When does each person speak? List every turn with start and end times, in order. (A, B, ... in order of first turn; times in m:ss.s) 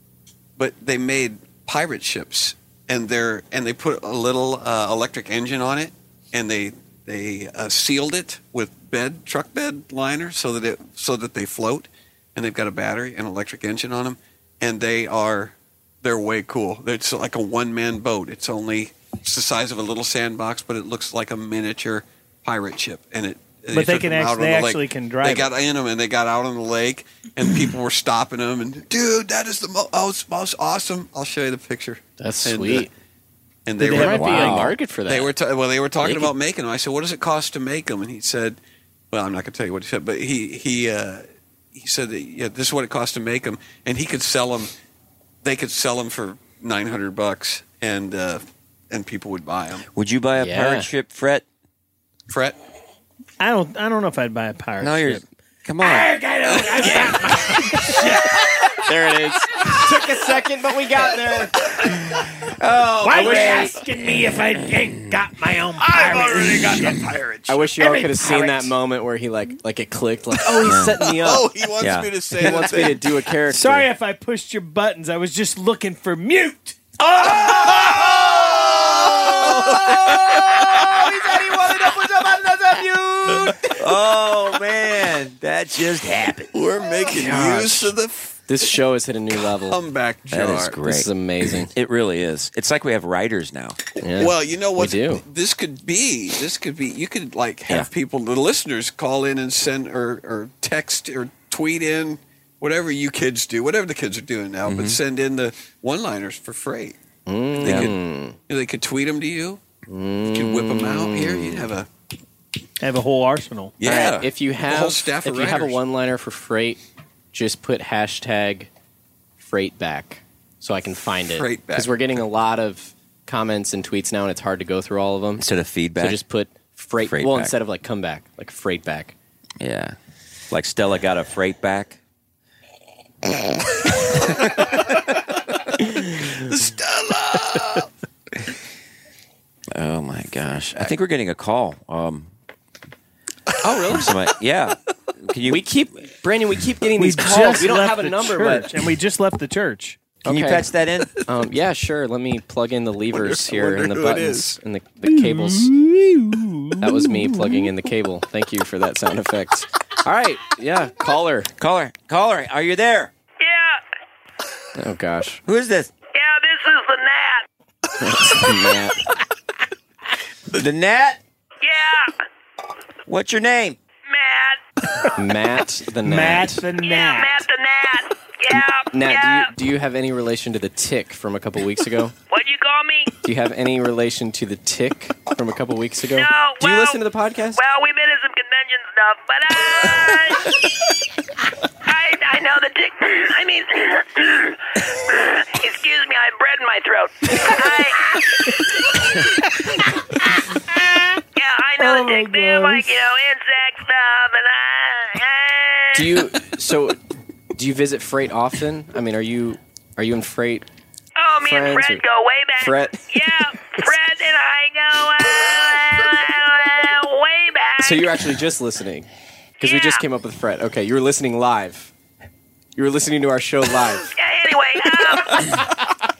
0:00.6-0:32.9 A
0:23.7-0:25.5 B
0:32.2-0:32.9 C
0:33.7-0:38.6 A
0:33.8-0:35.3 C
0:33.8-0:34.7 B
0:36.0-0:36.3 C
0:39.1-0:44.7 A
0:45.4-0:49.9 A
0:50.0-0:51.4 D
0:50.4-0:50.9 C
0:52.3-0:52.6 A
0:53.4-0:55.2 B
0:54.8-0:57.3 D
0:56.7-1:01.9 C
1:01.8-1:07.0 D
1:03.2-1:03.7 C
1:05.8-1:07.6 A
1:07.5-1:11.5 C
1:10.6-1:11.0 D
1:10.8-1:13.1 A
1:11.8-1:12.7 D
1:12.4-1:13.9 C
1:13.5-1:16.8 B
1:17.1-1:21.8 D
1:17.2-1:22.4 A
1:23.0-1:23.3 B
1:23.5-1:26.6 D
1:26.5-1:28.7 A
1:27.0-1:27.9 C
1:28.5-1:29.8 C
1:29.4-1:30.8 A
1:30.3-1:33.8 D
1:30.8-1:31.7 C
1:34.0-1:35.2 C
1:34.2-1:47.0 A
1:44.7-1:45.0 D
1:47.3-1:48.4 C
1:47.6-1:48.0 A
1:47.6-1:47.9 D
1:48.5-1:49.6 A
1:49.9-1:51.7 C
1:50.3-1:51.9 A
1:52.8-1:53.8 B
1:53.8-1:55.8 A
1:53.8-1:54.1 D
1:53.8-1:56.8 C
1:57.3-1:58.7 C
1:59.4-2:09.1 C
2:01.3-2:02.0 A
2:05.4-2:06.2 D
2:07.0-2:07.6 D
2:09.6-2:10.0 D
2:10.5-2:12.0 D
2:14.1-2:15.0 D
2:16.4-2:17.9 A
2:19.7-2:22.3 D
2:23.6-2:24.0 C
2:23.7-2:25.7 D
2:25.5-2:28.7 C
2:27.0-2:30.0 B
2:30.2-2:30.7 C
2:30.2-2:31.2 D
2:31.3-2:35.8 C
2:33.1-2:34.6 A
2:35.6-2:36.8 B
2:36.8-2:41.5 C
2:41.6-2:43.1 D
2:43.4-2:43.8 E
2:44.8-2:45.4 C
2:45.4-2:45.9 D
2:46.1-2:47.4 E
2:48.0-2:49.0 C
2:50.5-2:51.2 D
2:51.6-2:52.1 E
2:53.1-2:53.8 D
2:54.1-2:54.6 E
2:55.2-2:56.6 C
2:56.0-2:57.4 B
2:56.8-2:59.5 E
2:58.5-3:02.1 C
3:02.3-3:03.2 E
3:03.2-3:07.6 C
3:06.1-3:10.6 E
3:11.8-3:18.2 E
3:21.4-3:26.1 E
3:21.8-3:22.9 B
3:25.9-3:27.0 C
3:27.6-3:30.7 C
3:31.2-3:38.2 E
3:31.4-3:32.0 C
3:32.6-3:33.9 C
3:37.8-3:39.1 C
3:39.6-3:41.9 C
3:39.6-3:40.0 E
3:42.8-3:44.1 C
3:44.2-3:45.6 E